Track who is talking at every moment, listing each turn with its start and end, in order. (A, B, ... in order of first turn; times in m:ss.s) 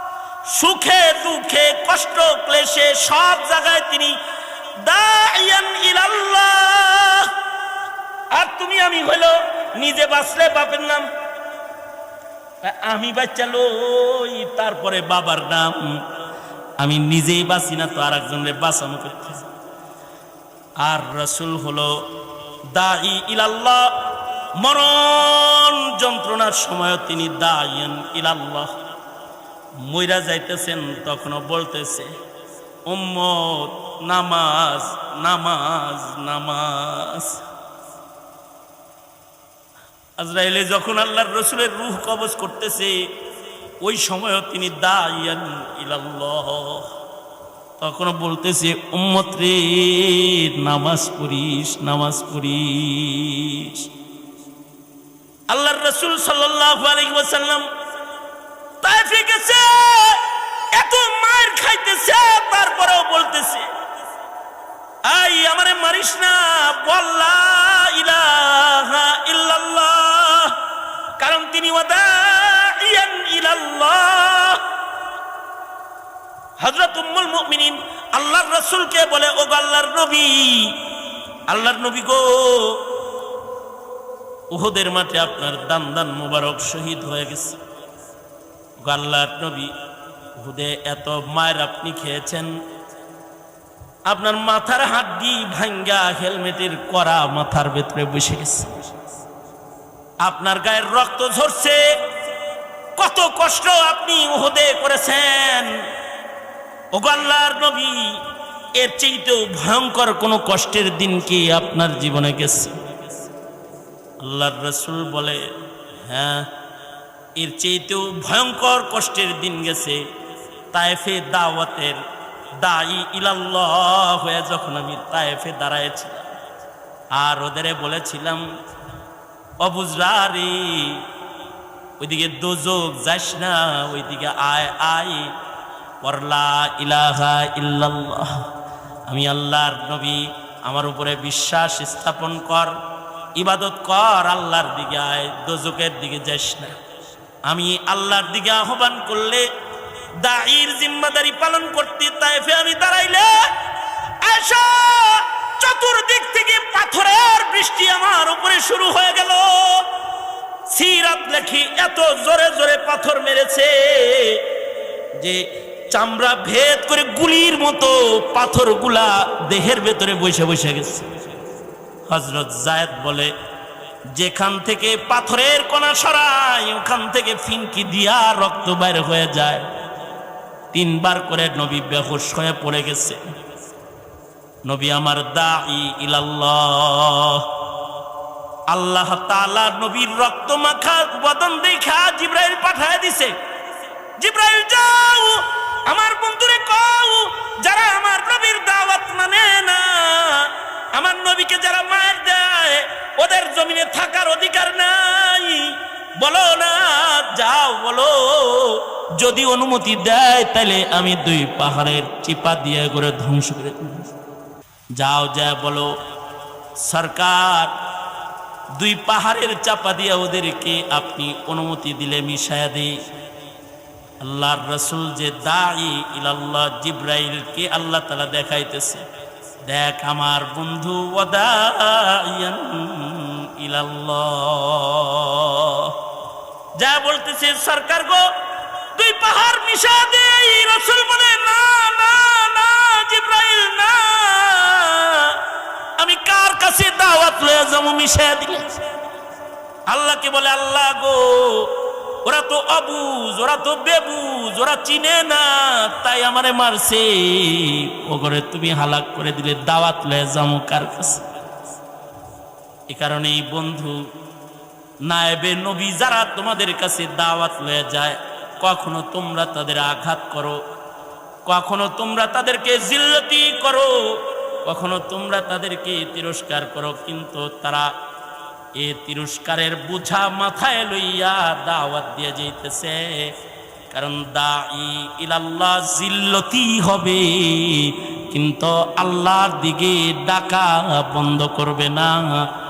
0:00.4-0:04.2 A
0:04.8-0:07.3 A
0:08.3-0:11.1 A
0:12.6-0:16.0 A
0:16.8-0:19.4 A
0:20.8-0:22.1 A
0:22.7-0:23.9 A
0:24.5-0:28.8 A
0:29.7-0:32.1 A
0:32.8-0:37.4 A
0:40.2-0:43.0 A
0:43.8-0:46.9 A
0:47.8-0:53.9 A
0:55.5-0:57.7 A
0:58.8-1:03.7 A
1:05.0-1:10.6 A
1:11.2-1:14.6 A
1:16.6-1:20.8 A
1:21.5-1:22.8 A
1:24.5-1:27.6 A
1:28.8-1:29.7 A
1:30.4-1:32.6 A
1:34.0-1:39.0 A
1:40.2-1:42.0 A
1:43.0-1:45.9 A
1:46.9-1:48.2 A
1:48.8-1:52.8 A
1:54.2-1:55.5 A
1:56.0-1:56.5 A
1:57.4-2:00.0 A
2:00.7-2:02.0 A
2:02.6-2:06.3 A
2:07.1-2:08.5 A
2:09.6-2:11.0 A
2:12.0-2:15.3 A
2:16.0-2:18.4 A
2:19.1-2:22.7 A
2:23.4-2:26.7 A
2:27.4-2:29.5 A
2:30.2-2:33.4 A
2:34.2-2:39.9 A
2:40.7-2:44.5 A
2:45.1-2:51.1 A
2:52.1-2:53.3 A
2:54.1-2:59.7 A
3:00.7-3:03.2 A
3:04.6-3:07.5 A
3:08.7-3:13.4 A
3:14.2-3:34.1 A
3:34.9-3:36.0 A
3:36.8-3:37.7 A
3:38.7-3:43.0 A
3:44.2-3:49.0 A
3:49.6-3:56.0 A
3:56.8-3:58.3 A
3:58.9-4:05.4 A
4:06.0-4:08.8 A
4:09.9-4:21.3 A
4:22.9-4:24.1 A
4:25.0-4:30.6 A
4:31.4-4:37.9 A
4:38.8-4:43.3 A
4:43.9-4:52.5 A